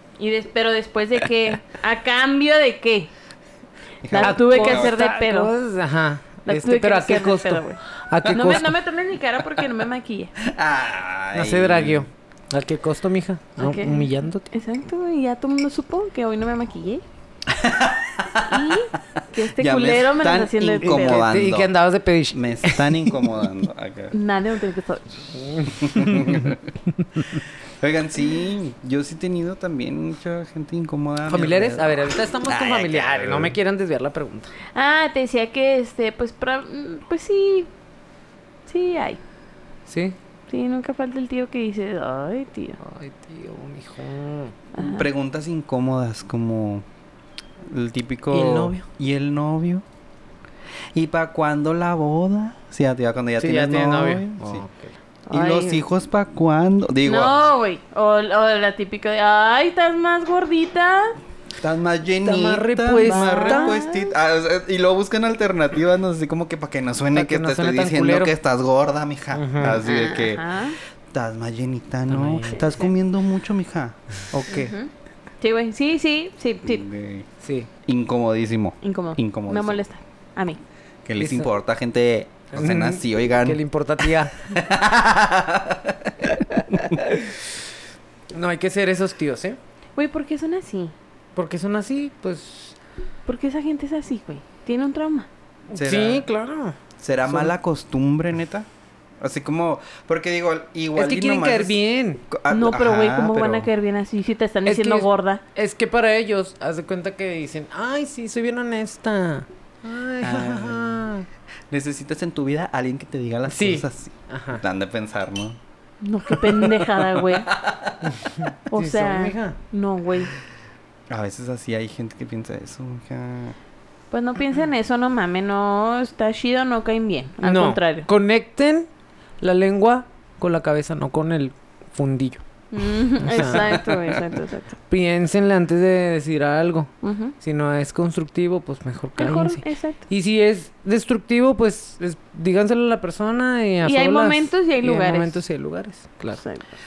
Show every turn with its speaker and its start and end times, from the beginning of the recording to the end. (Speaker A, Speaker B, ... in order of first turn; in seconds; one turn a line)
Speaker A: 0.2-3.1
Speaker B: 4.0-5.0
Speaker A: 4.1-5.5
Speaker C: 4.2-8.8
Speaker A: 6.5-7.8
Speaker A: 8.3-10.3
Speaker B: 10.4-12.1
Speaker C: 11.3-14.5
Speaker A: 13.6-17.0
Speaker B: 17.5-18.8
Speaker A: 18.4-21.2
Speaker B: 19.4-21.7
Speaker C: 20.8-23.4
Speaker B: 22.3-24.1
Speaker A: 24.1-25.4
Speaker C: 25.3-26.6
Speaker B: 25.8-26.7
Speaker B: 27.4-33.6
Speaker C: 31.3-34.5
Speaker A: 34.7-37.7
Speaker A: 38.7-39.2
Speaker C: 39.9-40.2
Speaker A: 40.5-42.8
Speaker C: 42.8-44.6
Speaker A: 44.8-45.1
Speaker B: 44.8-46.9
Speaker B: 47.6-49.8
Speaker C: 48.3-48.9
Speaker B: 50.9-54.6
Speaker C: 53.4-55.0
Speaker A: 55.3-55.8
Speaker B: 55.3-57.5
Speaker A: 57.0-61.2
Speaker B: 61.6-74.5
Speaker C: 62.2-63.8
Speaker A: 63.0-64.1
Speaker C: 67.1-68.3
Speaker C: 69.3-69.8
Speaker A: 69.8-70.8
Speaker C: 72.1-72.8
Speaker C: 74.3-74.7
Speaker A: 74.5-74.9
Speaker A: 75.4-76.8
Speaker B: 76.7-77.3
Speaker C: 77.4-77.7
Speaker B: 77.9-79.8
Speaker A: 78.8-80.6
Speaker B: 81.0-87.0
Speaker C: 81.2-81.5
Speaker C: 82.5-84.4
Speaker C: 87.0-87.6
Speaker C: 88.3-89.6
Speaker A: 90.0-90.9
Speaker C: 91.3-92.8
Speaker A: 93.3-95.3
Speaker C: 95.7-97.5
Speaker B: 95.7-96.3
Speaker B: 97.0-98.7
Speaker B: 99.2-101.8
Speaker C: 101.0-102.2
Speaker B: 102.3-103.7
Speaker A: 102.5-105.4
Speaker C: 104.7-111.3
Speaker B: 110.2-111.1
Speaker B: 111.7-115.6
Speaker C: 113.5-114.6
Speaker A: 116.0-117.5
Speaker B: 116.3-118.1
Speaker C: 118.1-119.6
Speaker A: 118.7-120.3
Speaker B: 121.1-123.6
Speaker A: 124.1-128.1
Speaker C: 127.4-128.9
Speaker C: 129.4-132.4
Speaker A: 132.7-134.8
Speaker C: 133.2-133.7
Speaker B: 133.6-134.0
Speaker C: 134.9-146.4
Speaker A: 137.0-137.3
Speaker A: 139.2-140.0
Speaker A: 143.8-145.4
Speaker A: 146.3-146.6